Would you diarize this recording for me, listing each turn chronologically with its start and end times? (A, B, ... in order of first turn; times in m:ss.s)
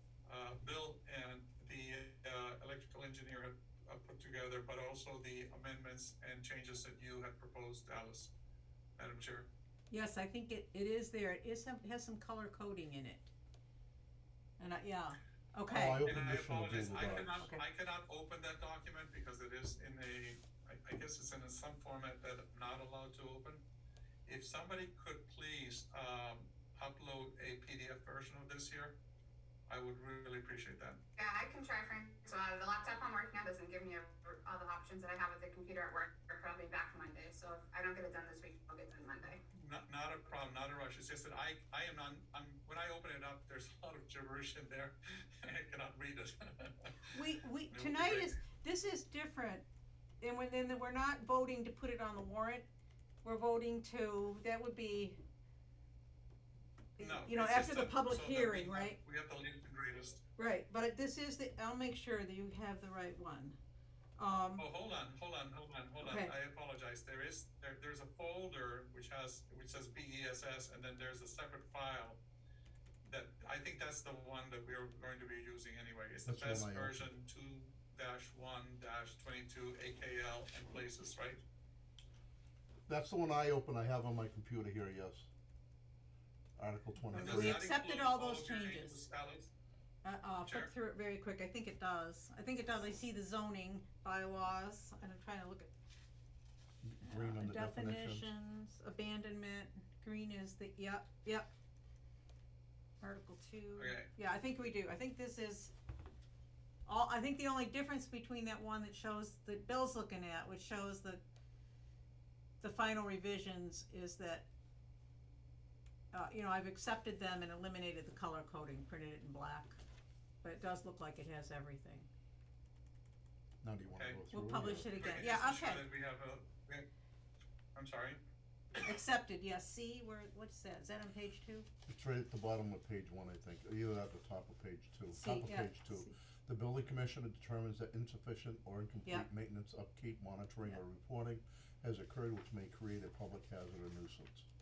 0:00.2-0:08.3 A
0:09.0-0:09.5 A
0:09.9-0:13.3 B
0:14.6-0:16.0 B
0:15.7-0:17.4 C
0:16.0-0:23.6 A
0:24.2-0:29.0 A
0:29.7-0:31.0 A
0:31.2-0:39.4 D
0:39.5-0:47.1 A
0:47.1-0:49.6 B
0:47.7-0:48.4 A
0:50.2-0:52.6 B
0:53.2-0:55.2 B
0:57.0-0:59.0 B
0:57.0-1:00.2 A
1:00.4-1:03.6 B
1:04.2-1:04.6 B
1:04.6-1:12.2 A
1:06.0-1:06.3 B
1:13.0-1:21.4 A
1:16.2-1:17.0 C
1:22.9-1:25.3 C
1:26.6-1:27.6 C
1:27.1-1:29.5 A
1:27.1-1:29.0 B
1:30.0-1:35.7 B
1:30.4-1:30.7 A
1:36.8-1:38.3 C
1:37.0-1:41.5 B
1:43.0-1:45.7 B
1:43.8-1:44.1 A
1:46.8-1:51.2 B
1:52.6-1:54.5 B
1:56.1-1:59.8 B
2:00.4-2:02.1 B
2:03.6-2:05.0 C
2:03.9-2:04.2 A
2:04.3-2:05.8 B
2:05.0-2:06.9 A
2:07.7-2:08.2 A
2:08.8-2:11.7 B
2:11.9-2:24.5 C
2:15.1-2:16.1 B